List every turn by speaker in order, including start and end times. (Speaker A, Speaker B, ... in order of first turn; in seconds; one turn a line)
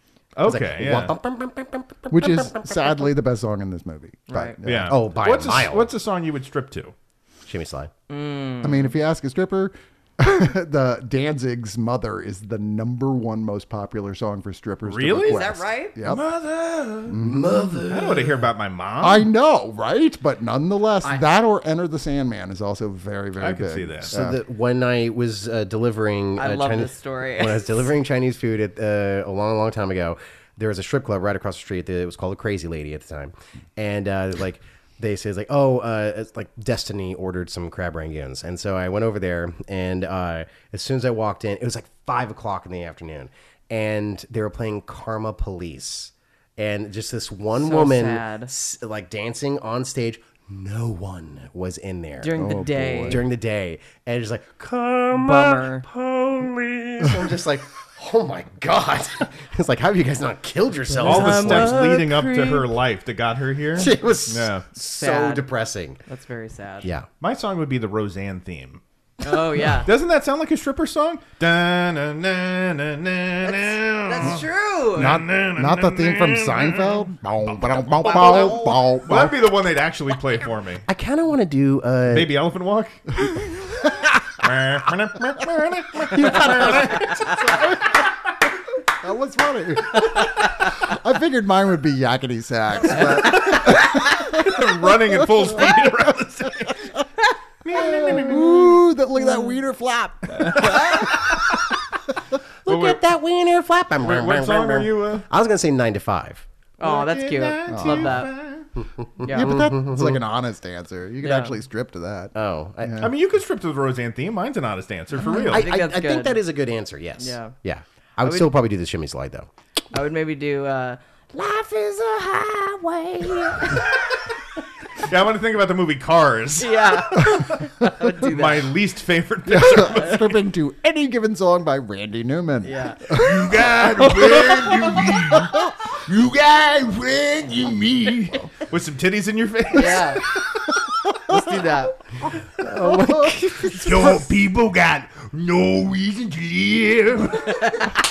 Speaker A: 0.4-1.1
Speaker B: 0.4-2.9
Speaker C: 2.1-5.0
Speaker D: 4.3-4.6
Speaker A: 4.6-6.9
Speaker B: 4.9-5.9
Speaker B: 7.5-7.9
Speaker D: 8.1-8.9
Speaker C: 8.6-16.2
Speaker A: 14.8-15.4
Speaker D: 15.2-16.0
Speaker A: 16.0-17.2
Speaker C: 17.1-17.9
Speaker B: 17.2-18.4
Speaker A: 17.9-19.3
Speaker C: 19.0-24.4
Speaker A: 23.4-24.1
Speaker B: 24.1-52.4
Speaker D: 26.4-27.9
Speaker D: 47.6-48.5
Speaker D: 52.2-53.2
Speaker C: 52.3-53.2
Speaker B: 53.1-62.2
Speaker D: 55.1-55.9
Speaker D: 60.9-62.7
Speaker A: 61.0-64.7
Speaker B: 63.7-66.0
Speaker D: 64.9-65.5
Speaker D: 66.1-66.9
Speaker A: 67.2-68.8
Speaker D: 69.2-69.9
Speaker A: 69.8-74.4
Speaker D: 74.0-75.2
Speaker C: 74.9-79.4
Speaker A: 75.0-77.1
Speaker D: 78.0-78.8
Speaker B: 78.1-78.3
Speaker A: 78.1-80.8
Speaker B: 80.9-82.3
Speaker A: 82.1-83.3
Speaker A: 84.4-87.1
Speaker C: 86.0-88.0
Speaker C: 88.9-94.6
Speaker A: 93.2-96.9
Speaker C: 95.1-95.8
Speaker A: 97.6-98.6
Speaker C: 97.8-101.3
Speaker A: 100.4-101.6
Speaker B: 102.7-106.5
Speaker A: 102.7-103.0
Speaker A: 104.0-105.3
Speaker D: 106.8-108.3
Speaker A: 106.8-108.7
Speaker C: 107.7-108.2
Speaker B: 108.8-110.2
Speaker C: 109.2-113.1
Speaker D: 109.2-109.6
Speaker D: 111.2-111.6
Speaker B: 112.3-113.1
Speaker A: 113.0-115.7
Speaker B: 115.2-119.5
Speaker D: 115.5-116.5
Speaker D: 117.2-117.5
Speaker D: 118.2-118.5
Speaker D: 119.9-123.9
Speaker A: 125.0-127.5
Speaker D: 126.6-128.8
Speaker A: 128.3-130.3
Speaker C: 129.4-133.7
Speaker D: 132.6-133.2
Speaker A: 133.2-134.3
Speaker E: 133.6-135.4
Speaker C: 134.4-135.6
Speaker E: 136.1-138.3
Speaker C: 138.0-138.5
Speaker A: 138.7-140.1
Speaker D: 139.7-140.2
Speaker D: 141.3-142.0
Speaker B: 142.6-143.9
Speaker C: 142.6-144.3
Speaker A: 143.8-145.1
Speaker E: 145.1-147.1
Speaker D: 147.7-147.9